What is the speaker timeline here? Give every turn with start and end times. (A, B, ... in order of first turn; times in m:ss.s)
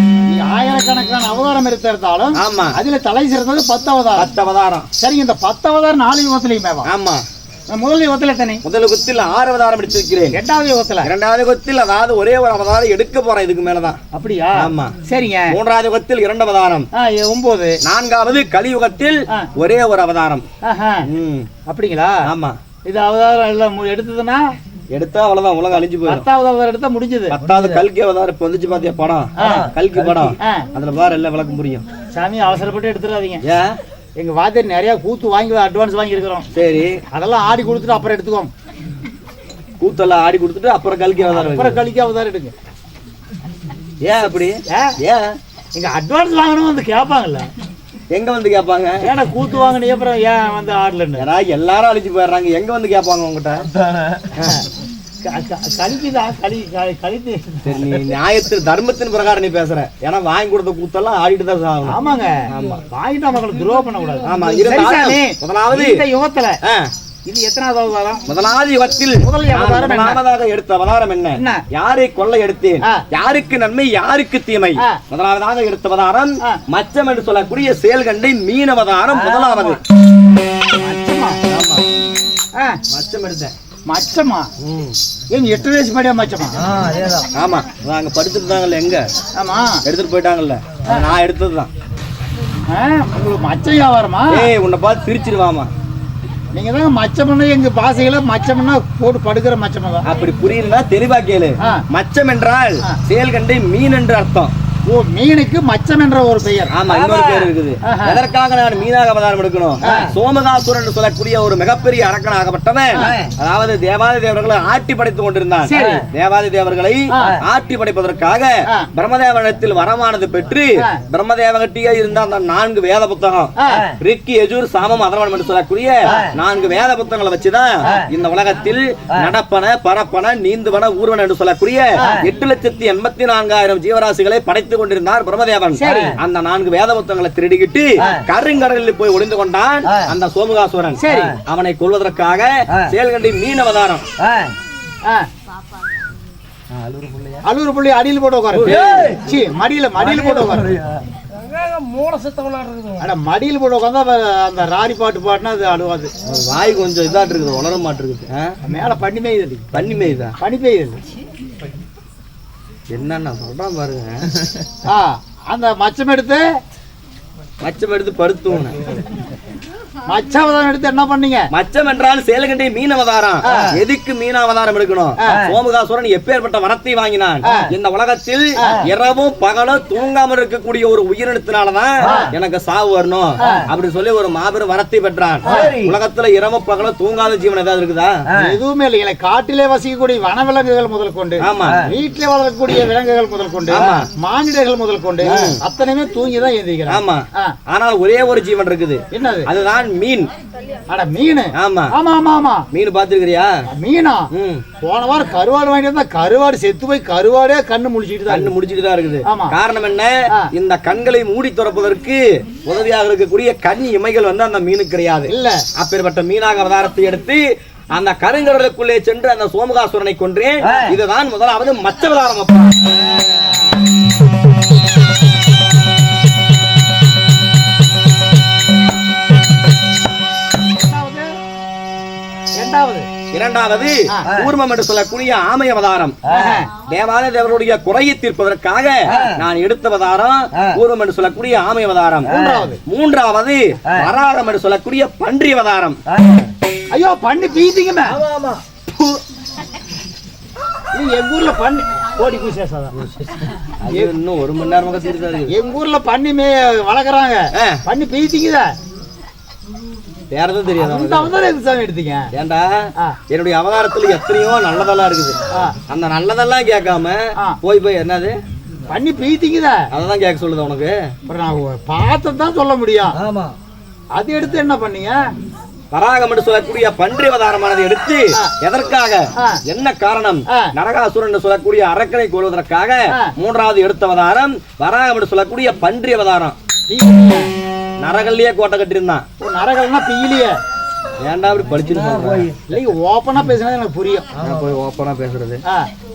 0:00.3-0:04.3 A
0:02.4-0:02.8 B
0:04.2-0:04.9 B
0:05.0-0:06.9 A
0:06.8-0:07.2 B
0:07.7-0:08.6 A
0:08.6-0:10.4 B
0:10.3-0:11.1 A
0:11.0-0:14.0 B
0:14.1-0:15.6 A
0:14.6-0:15.0 B
0:15.5-0:16.9 B
0:17.0-0:17.8 A
0:17.8-0:20.5 B
0:20.6-0:21.1 A
0:21.1-0:21.5 B
0:21.7-0:22.2 A
0:22.2-0:22.6 B
0:22.8-0:24.5 A
0:24.9-0:26.3 B
0:26.1-0:27.4 A
0:27.3-0:31.9 B
0:29.4-0:29.7 A
0:30.4-0:30.7 A
0:32.2-0:33.4 A
0:33.4-0:33.8 B
0:34.2-0:36.5 A
0:36.5-0:37.0 B
0:37.1-0:38.5 A
0:39.8-0:41.8 B
0:41.3-0:42.5 A
0:44.0-0:45.4 B
0:44.7-0:45.0 A
0:45.8-0:47.5 A
0:48.1-0:49.0 B
0:49.0-0:51.3 A
0:51.2-0:53.7 B
0:55.2-0:57.9 A
0:57.6-1:02.0 B
1:01.9-1:06.6 A
1:02.5-1:02.8 B
1:04.2-1:06.0 B
1:06.6-1:06.9 B
1:07.3-1:08.2 A
1:08.3-1:19.8 B
1:09.2-1:10.2 A
1:11.4-1:11.6 A
1:19.2-1:19.8 C
1:20.8-1:21.4 A
1:21.5-1:21.8 B
1:22.9-1:23.5 B
1:23.9-1:24.5 A
1:24.6-1:25.0 B
1:25.3-1:26.6 A
1:26.7-1:27.2 C
1:27.2-1:29.1 B
1:29.4-1:29.8 A
1:29.9-1:31.7 B
1:32.7-1:34.5 A
1:34.3-1:35.7 B
1:36.5-1:40.1 A
1:40.0-1:44.5 B
1:44.9-1:46.7 A
1:46.7-2:24.1 B
1:46.9-1:47.5 C
1:47.8-1:48.2 A
1:49.8-1:50.1 A
1:53.0-1:53.3 C
1:55.7-1:56.0 A
1:57.1-1:57.4 A
2:03.6-2:03.9 A
2:12.0-2:12.2 A
2:15.8-2:16.2 A
2:21.0-2:21.4 A
2:24.2-2:24.5 C
2:26.8-2:27.4 C
2:27.4-2:30.8 A
2:28.6-2:29.2 C
2:28.6-2:29.2 B
2:30.0-2:30.6 B
2:30.5-2:32.9 C
2:33.0-2:36.1 A
2:36.2-2:38.6 B
2:38.7-2:39.8 A
2:39.7-2:40.4 B
2:40.4-2:41.0 A
2:42.9-2:44.3 B
2:44.9-2:46.5 A
2:47.6-2:48.8 B
2:50.1-2:51.5 A
2:51.5-3:08.2 B
2:53.4-2:53.8 A
2:55.2-2:55.5 A
2:57.4-2:57.7 A
3:02.0-3:02.3 A
3:03.4-3:03.7 A
3:05.5-3:05.8 A
3:05.5-3:06.0 C
3:08.4-3:17.6 A
3:11.4-3:11.9 B
3:13.7-3:14.1 B
3:15.2-3:15.6 B
3:16.9-3:20.3 B
3:19.1-3:19.5 A
3:20.9-3:22.7 A
3:21.6-3:21.9 B
3:22.7-3:23.5 B
3:23.7-3:24.3 A
3:24.3-3:24.6 B
3:24.8-3:28.5 A
3:28.3-3:42.9 B
3:29.2-3:29.6 A
3:35.3-3:35.6 A
3:40.6-3:41.0 C
3:43.2-3:43.6 A
3:50.8-3:51.3 A
3:52.6-3:53.1 A
3:53.3-3:56.2 B
3:56.3-3:56.7 A
3:56.8-4:02.3 B
3:59.1-3:59.4 C
4:02.3-4:02.8 A
4:02.3-4:02.6 C
4:02.9-4:06.0 B
4:06.2-4:06.4 C
4:06.9-4:08.2 A
4:08.3-4:09.1 B
4:10.9-4:13.0 A
4:13.8-4:15.5 B
4:15.5-4:18.7 A
4:17.5-4:17.8 B
4:20.3-4:21.3 B
4:20.8-4:22.3 A
4:22.3-4:28.4 B
4:28.9-4:29.8 A
4:29.9-4:31.1 B
4:31.3-4:33.2 A
4:33.2-4:33.5 C
4:34.2-4:35.2 A
4:35.9-4:46.6 B
4:40.5-4:40.7 A
4:46.9-4:47.5 A
4:48.0-4:49.2 B
4:49.4-4:50.6 A
4:51.2-4:52.5 B
4:51.9-4:52.5 C
4:52.7-4:54.3 A
4:54.4-4:55.6 B